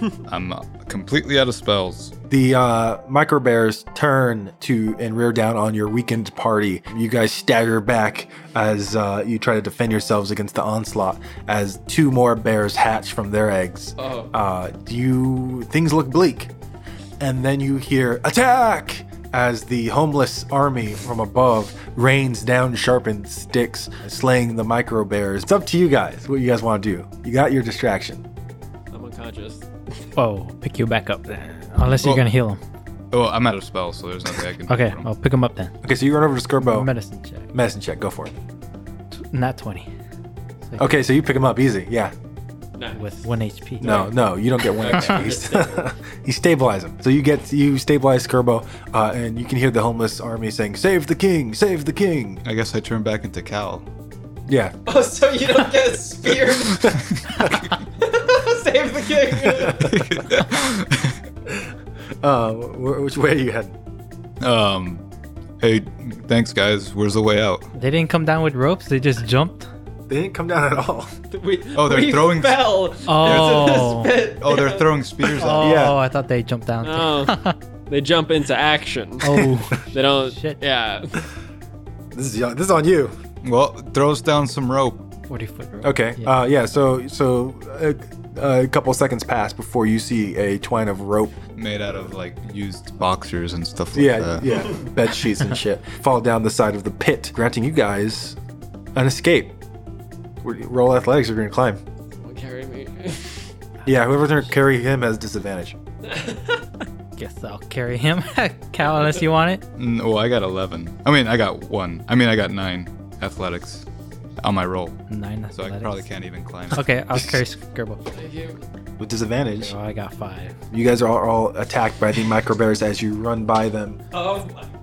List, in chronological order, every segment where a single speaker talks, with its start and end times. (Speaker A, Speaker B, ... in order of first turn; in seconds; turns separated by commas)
Speaker A: 0.3-2.1, Speaker B: 2.3-16.5, Speaker C: 14.0-14.3, Speaker B: 17.2-28.2, Speaker C: 28.9-29.7, Speaker D: 30.2-32.6, Speaker A: 32.0-32.3, Speaker A: 33.1-35.1, Speaker D: 34.7-35.7, Speaker B: 35.8-36.9, Speaker D: 36.6-37.5, Speaker B: 37.5-38.3, Speaker D: 39.1-39.9, Speaker B: 40.8-42.1, Speaker C: 42.8-43.1, Speaker D: 42.9-44.1, Speaker B: 43.8-52.4, Speaker C: 44.8-45.9, Speaker D: 44.9-45.2, Speaker A: 52.5-53.9, Speaker B: 54.5-54.8, Speaker C: 54.9-57.0, Speaker A: 56.5-57.5, Speaker C: 58.0-59.9, Speaker A: 59.5-61.2, Speaker B: 62.2-63.8, Speaker A: 64.4-65.0, Speaker A: 65.6-67.7, Speaker D: 67.7-69.7, Speaker B: 70.1-71.1, Speaker C: 71.3-75.3, Speaker A: 71.7-72.7, Speaker D: 73.0-74.1, Speaker A: 73.2-75.8, Speaker D: 75.4-77.6, Speaker B: 75.5-76.0, Speaker C: 76.8-81.2, Speaker D: 79.2-80.6, Speaker B: 82.1-83.2, Speaker A: 83.4-85.1, Speaker D: 85.3-86.3, Speaker B: 85.8-91.4, Speaker A: 91.5-94.7, Speaker B: 93.9-98.4, Speaker C: 94.5-94.8, Speaker B: 99.0-99.6, Speaker B: 100.4-101.8, Speaker C: 102.2-103.5, Speaker B: 103.8-105.8, Speaker D: 103.9-104.2, Speaker C: 106.0-106.7, Speaker D: 107.2-109.6, Speaker C: 108.8-109.2, Speaker A: 109.8-113.9, Speaker A: 114.4-115.0, Speaker D: 115.1-116.1, Speaker A: 115.5-116.9, Speaker D: 116.7-118.0, Speaker C: 118.1-118.6, Speaker B: 119.0-119.7, Speaker D: 119.6-120.5, Speaker B: 120.7-124.0, Speaker C: 124.1-124.7